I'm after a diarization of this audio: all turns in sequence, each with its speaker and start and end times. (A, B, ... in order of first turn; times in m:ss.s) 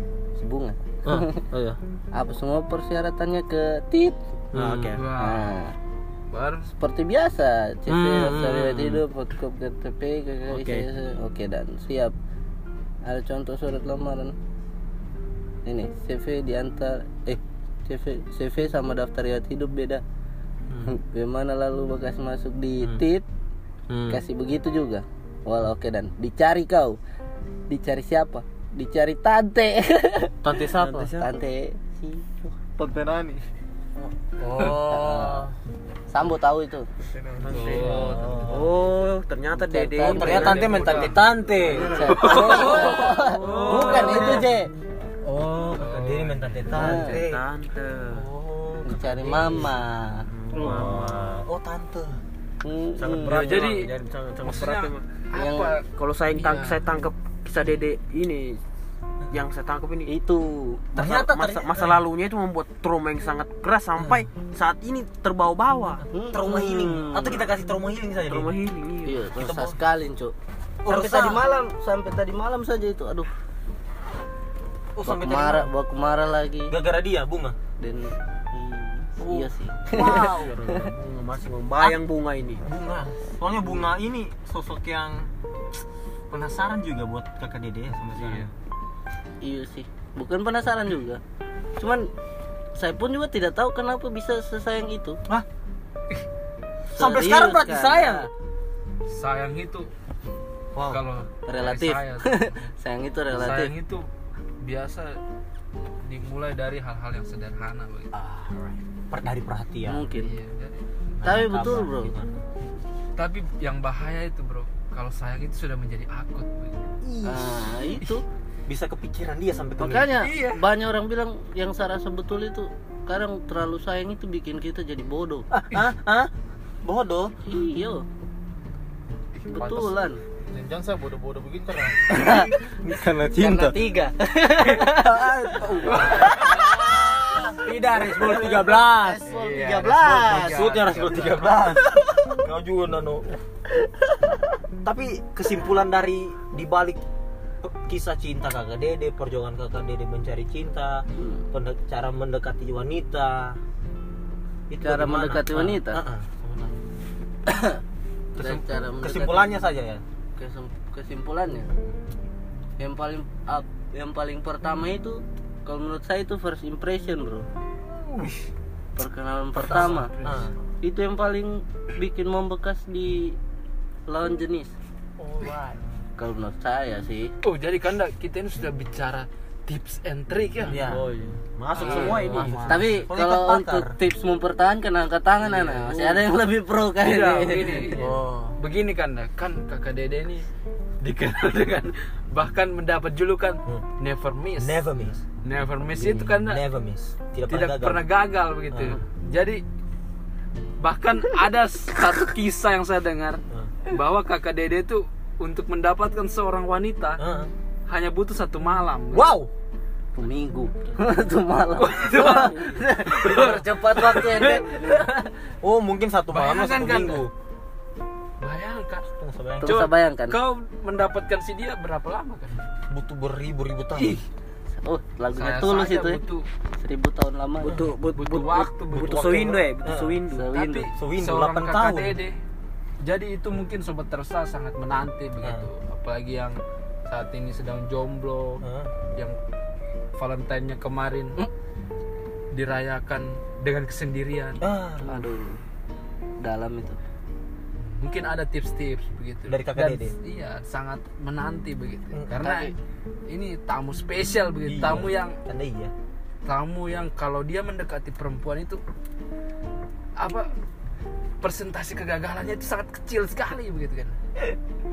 0:00.4-0:01.4 A
0:01.0-0:01.8 B
0:02.1-0:04.2 A
0:04.5-0:05.0 C
0:04.5-0:05.0 B
0:04.9-0:05.5 D
0:05.2-0:05.7 A
0:06.3-0:06.7 D
0:06.8-0:12.1 A
0:07.9-0:09.0 B
0:10.6-0:10.8 B
0:13.0-0:14.3 A
0:15.6-0:20.0 A
0:20.9-0:23.2 A
0:23.9-0:24.2 B
0:24.1-0:27.0 A
0:27.7-0:30.3 A
0:30.4-0:31.3 C
0:30.5-0:30.9 B
0:31.2-0:32.5 A
0:32.8-0:33.4 E
0:34.4-0:35.1 B
0:34.6-0:35.4 C
0:34.8-0:35.5 A
0:36.1-0:36.9 A
0:37.4-0:41.1 C
0:37.5-0:38.3 D
0:37.6-0:38.7 B
0:39.7-0:40.6 A
0:40.0-0:44.5 B
0:40.1-0:41.2 D
0:41.7-0:42.3 E
0:41.9-0:44.4 C
0:41.9-0:44.7 A
0:42.1-0:44.5 D
0:45.2-0:47.4 B
0:45.8-0:46.6 D
0:46.7-0:48.2 C
0:46.7-0:47.1 A
0:48.1-0:49.8 B
0:48.8-0:50.2 A
0:50.3-0:51.4 C
0:50.5-0:52.2 B
0:52.6-0:53.4 A
0:53.0-0:53.6 B
0:53.0-0:55.0 C
0:53.3-0:53.9 D
0:54.4-0:56.8 D
0:55.3-0:55.8 A
0:55.8-0:58.6 C
0:59.3-1:00.1 C
1:00.0-1:00.8 A
1:00.9-1:06.0 C
1:01.0-1:02.0 B
1:04.0-1:04.2 B
1:06.1-1:07.4 A
1:06.3-1:08.6 B
1:08.3-1:09.3 C
1:09.0-1:10.3 A
1:09.3-1:09.8 B
1:10.8-1:11.4 B
1:10.8-1:13.3 A
1:15.0-1:15.7 B
1:15.0-1:16.7 A
1:16.7-1:17.6 B
1:17.8-1:20.9 A
1:19.2-1:20.5 B
1:19.9-1:22.6 C
1:22.6-1:25.3 B
1:26.3-1:28.5 B
1:28.2-1:28.4 D
1:29.4-1:31.2 A
1:31.8-1:32.1 A
1:32.7-1:35.2 A
1:36.9-1:38.3 B
1:36.9-1:38.3 A
1:39.1-1:39.9 D
1:40.7-1:41.0 B
1:40.9-1:42.6 D
1:41.5-1:43.7 A
1:43.3-1:44.0 D
1:44.6-1:45.2 D
1:46.0-1:48.1 D
1:48.1-1:50.0 B
1:49.9-1:50.3 A
1:50.2-1:50.8 D
1:51.2-1:52.3 B
1:51.2-1:52.1 A
1:53.2-1:56.8 D
1:57.0-1:57.7 B
1:57.2-1:58.2 A
1:58.7-2:00.2 B
1:59.8-2:05.5 A
2:00.2-2:00.6 D
2:05.5-2:06.3 B
2:06.8-2:07.3 B
2:07.5-2:08.0 A
2:09.4-2:10.0 D
2:09.5-2:10.2 A
2:10.5-2:12.1 E
2:12.1-2:12.5 A
2:12.3-2:13.8 B
2:13.3-2:15.1 A
2:14.7-2:23.4 B
2:15.8-2:16.8 D
2:18.2-2:18.5 C
2:19.2-2:21.6 D
2:24.8-2:27.0 B
2:27.6-2:33.6 B
2:31.2-2:31.4 A
2:34.7-2:36.8 B
2:34.8-2:36.0 A
2:37.5-2:37.8 A
2:38.4-2:40.0 B
2:38.4-2:39.6 A
2:40.4-2:41.7 A
2:42.8-2:47.5 A
2:48.0-2:48.4 B
2:49.0-2:50.1 A
2:49.6-2:50.5 D
2:50.2-2:50.5 B
2:50.8-2:53.4 A
2:54.1-2:54.7 A
2:55.2-2:55.8 B
2:56.2-2:57.3 A
2:57.4-3:00.8 D
3:00.6-3:01.0 B
3:00.8-3:02.6 C
3:01.8-3:02.9 D
3:01.8-3:04.0 B
3:02.7-3:08.0 A
3:05.5-3:05.9 D
3:07.0-3:08.1 D
3:07.9-3:08.6 B
3:08.6-3:10.4 D
3:11.0-3:14.8 D
3:14.6-3:15.2 B
3:15.4-3:16.6 D
3:15.8-3:18.0 B
3:17.5-3:19.6 D
3:18.7-3:19.0 B
3:20.8-3:27.2 D
3:27.2-3:27.5 B
3:27.9-3:29.3 D
3:29.1-3:29.5 B
3:30.2-3:35.3 A
3:31.8-3:34.6 D
3:33.2-3:33.6 B
3:34.4-3:34.6 B
3:35.6-3:37.3 B
3:36.3-3:37.2 D
3:38.4-3:39.1 D
3:39.1-3:39.8 B
3:39.6-3:40.4 A
3:39.6-3:42.6 D
3:42.9-3:44.2 B
3:44.0-3:44.2 D
3:44.8-3:46.2 A
3:45.3-3:46.4 D
3:46.8-3:47.8 A
3:47.6-3:50.5 C
3:48.2-3:49.6 D
3:48.9-3:50.2 B
3:50.3-3:50.9 A
3:50.5-3:52.4 D
3:50.9-3:52.2 B
3:53.0-3:58.6 D
3:55.4-3:55.7 B
3:58.6-3:58.9 B
4:00.2-4:01.4 D
4:02.5-4:04.6 D
4:04.6-4:05.3 B
4:05.0-4:05.6 A
4:06.4-4:07.0 A
4:07.8-4:12.7 D
4:09.5-4:10.1 B
4:12.1-4:12.7 B
4:13.3-4:15.3 D
4:14.6-4:15.9 B
4:16.4-4:18.8 D
4:20.2-4:20.5 D
4:21.4-4:24.2 D